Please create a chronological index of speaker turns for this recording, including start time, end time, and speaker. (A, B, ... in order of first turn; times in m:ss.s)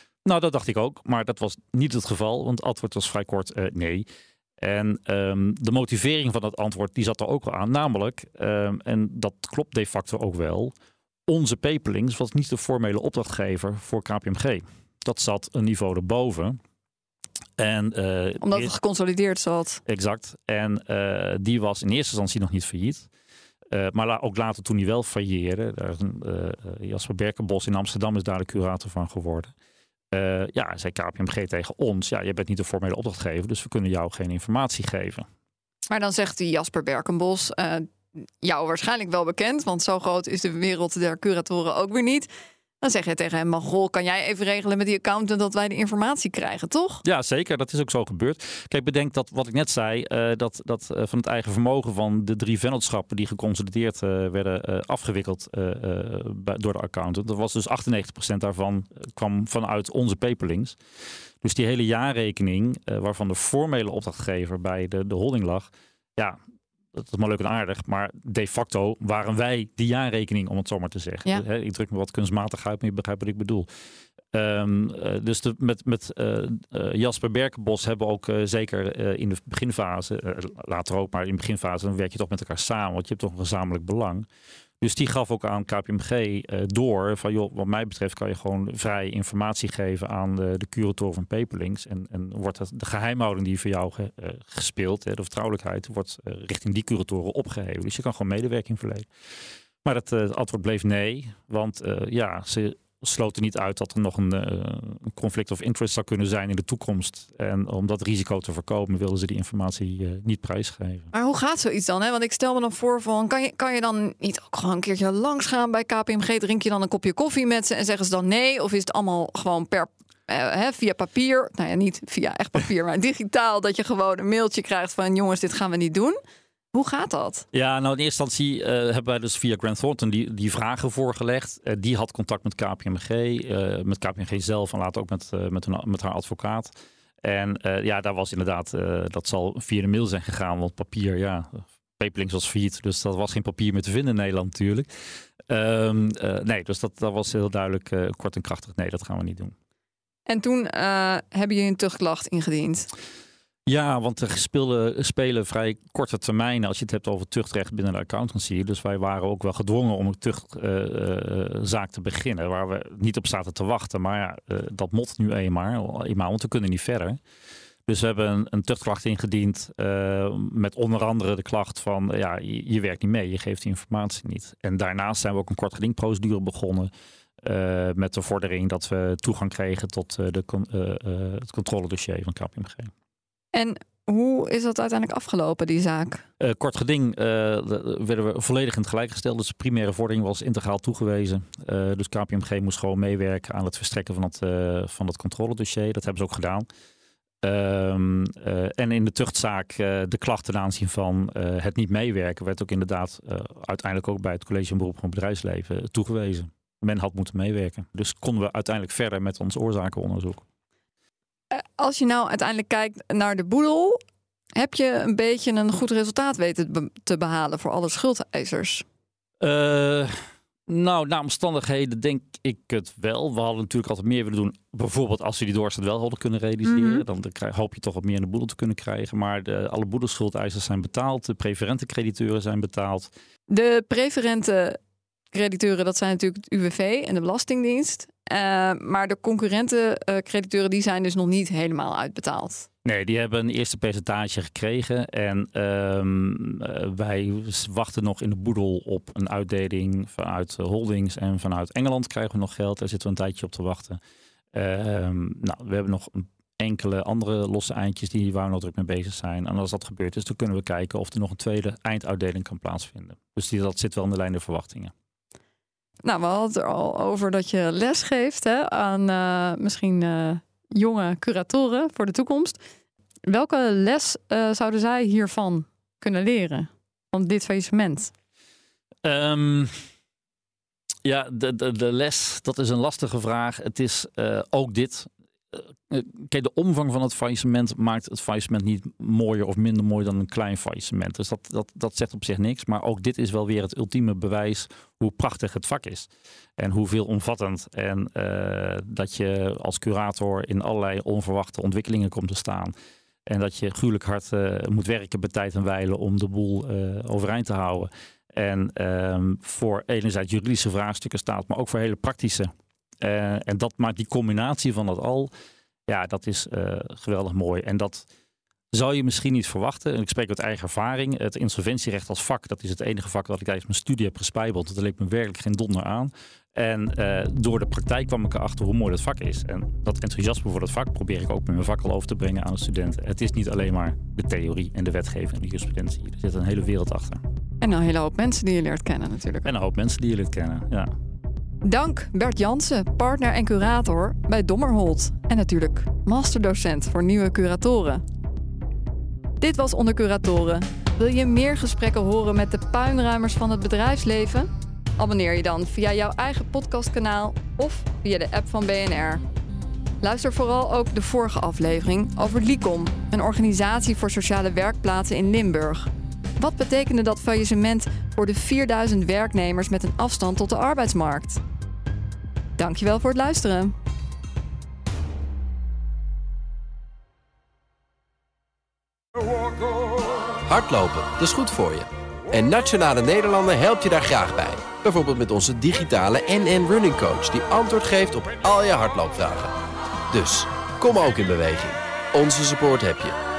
0:00.2-0:04.1 A
0:04.6-0:10.7 A
0:11.3-0:16.6 A
0:17.6-0:18.7 A
0:18.4-0:19.8 B
0:19.9-0:23.1 A
0:23.7-0:29.5 A
0:30.1-0:35.3 A
0:35.9-0:37.9 B
0:38.4-0:42.3 B
0:42.8-0:47.0 B
0:47.0-1:00.8 A
1:01.4-1:06.4 A
1:06.9-1:13.7 A
1:14.3-1:24.3 A
1:24.8-1:39.1 A
1:39.8-1:51.1 A
1:51.1-2:06.2 B
2:06.7-2:07.5 B
2:07.5-2:16.7 A
2:17.2-2:24.9 A
2:25.5-2:29.5 A
2:30.3-2:32.9 B
2:33.7-2:47.2 A
2:47.9-2:56.9 A
2:57.4-3:02.9 A
3:03.5-3:06.2 B
3:06.4-3:16.7 A
3:17.4-3:30.4 A
3:31.5-3:34.0 B
3:34.5-3:38.8 B
3:39.4-3:40.2 A
3:40.7-3:53.1 A
3:46.7-3:47.0 B
3:53.5-3:54.8 B
3:55.3-4:02.7 B
4:02.8-4:14.0 A
4:14.5-4:24.9 A
4:26.0-4:32.6 B
4:33.3-4:38.1 B
4:39.0-4:39.8 A
4:41.0-5:02.7 A
5:03.3-5:12.5 A
5:13.0-5:15.3 A
5:15.9-5:18.1 A
5:18.7-5:37.2 A
5:37.6-5:39.5 B
5:39.4-5:40.9 A
5:41.6-5:48.0 B
5:49.4-5:59.2 B
6:00.0-6:11.4 B
6:12.6-6:13.8 B
6:20.5-6:29.6 C
6:30.1-6:33.2 C